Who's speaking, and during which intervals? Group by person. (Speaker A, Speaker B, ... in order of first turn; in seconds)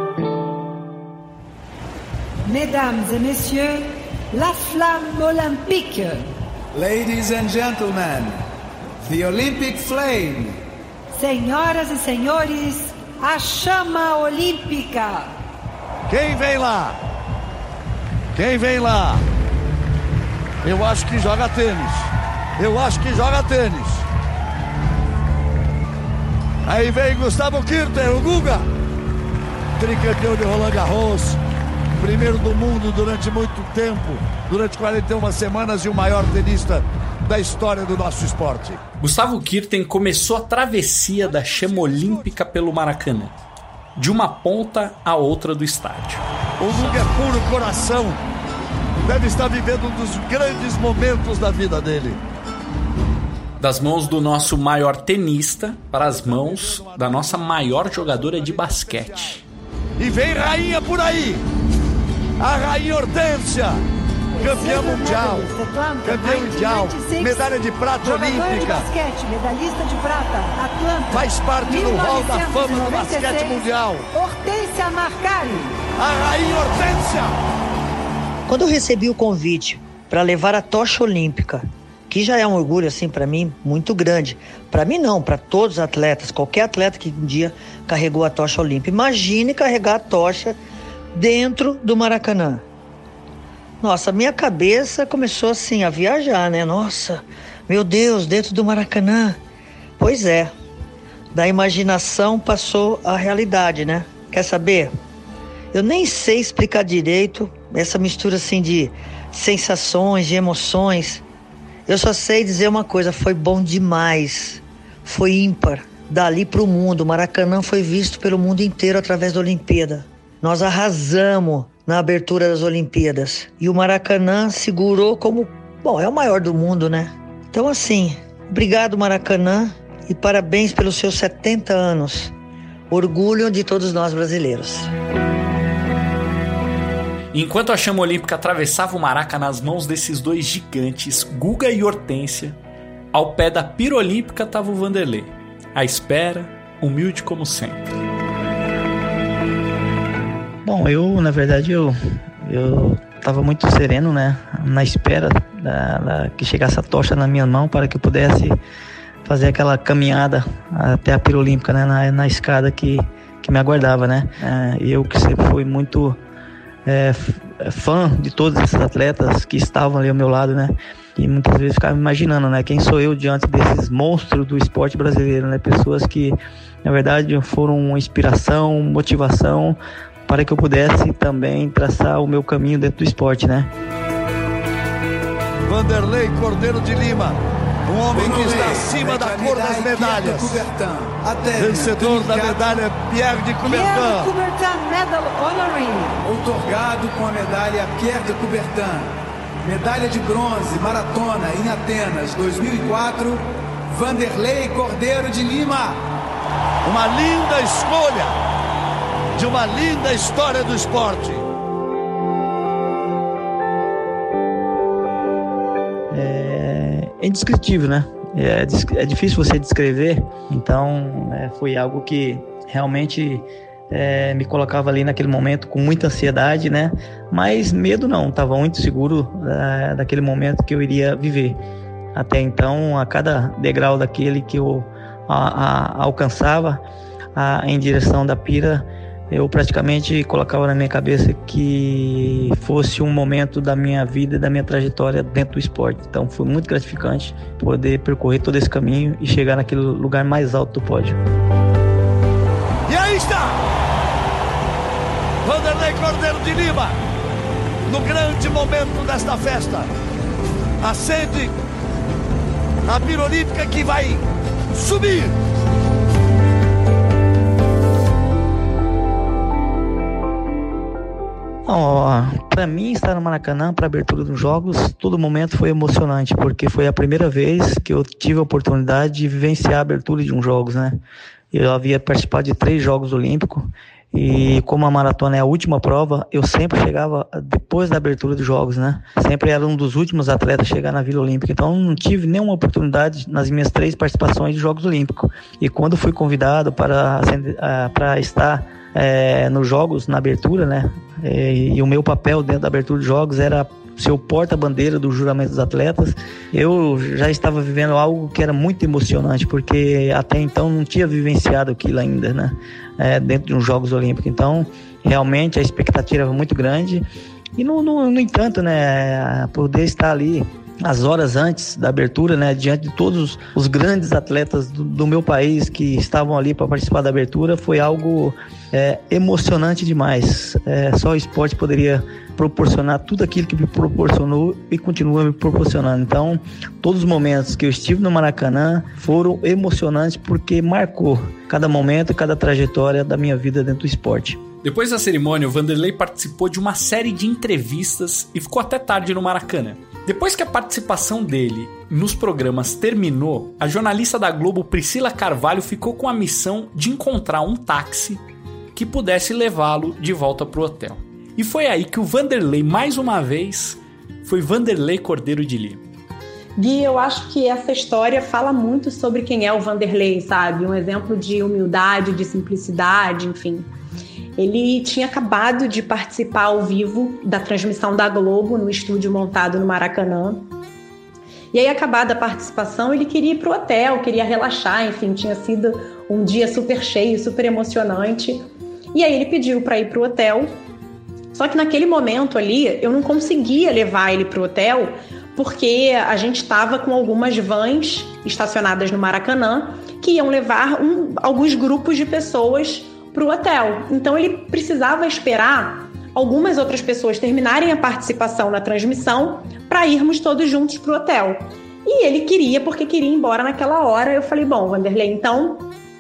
Speaker A: 2.4-6.2, 11.1-15.3, 64.3-67.5, 68.0-75.8, 193.6-196.2
Speaker B: 6.7-8.4, 9.0-10.6, 188.1-192.8, 196.2-206.0
Speaker C: 16.1-16.9, 18.3-19.2, 20.6-24.0, 26.6-28.6, 29.8-31.4, 32.0-38.8, 46.6-48.2, 49.0-52.2, 56.5-57.0, 58.4-59.4, 60.0-61.4, 62.4-63.8, 64.4-65.5, 66.0-68.9, 71.1-74.1, 76.0-77.3, 185.7-190.6, 191.6-194.3, 206.8-208.3, 209.3-211.4, 252.9-253.6, 255.4-257.0, 257.9-259.9, 260.8-261.6, 262.9-265.3
Speaker D: 39.0-43.4, 44.0-46.2, 53.6-59.4, 137.3-142.6, 143.1-147.9, 344.6-358.2, 358.7-365.8
Speaker E: 78.5-90.6, 91.1-92.6, 93.8-99.4, 100.0-100.5, 101.3-104.9, 105.7-111.2, 111.9-132.3, 132.9-134.9
Speaker F: 150.6-158.6, 159.2-166.2, 166.8-183.7, 216.1-231.6, 232.1-236.8, 237.3-251.2, 271.6-281.0, 281.5-317.0, 317.6-344.4
Speaker G: 366.6-373.7, 374.4-380.5, 381.5-390.6, 391.3-415.7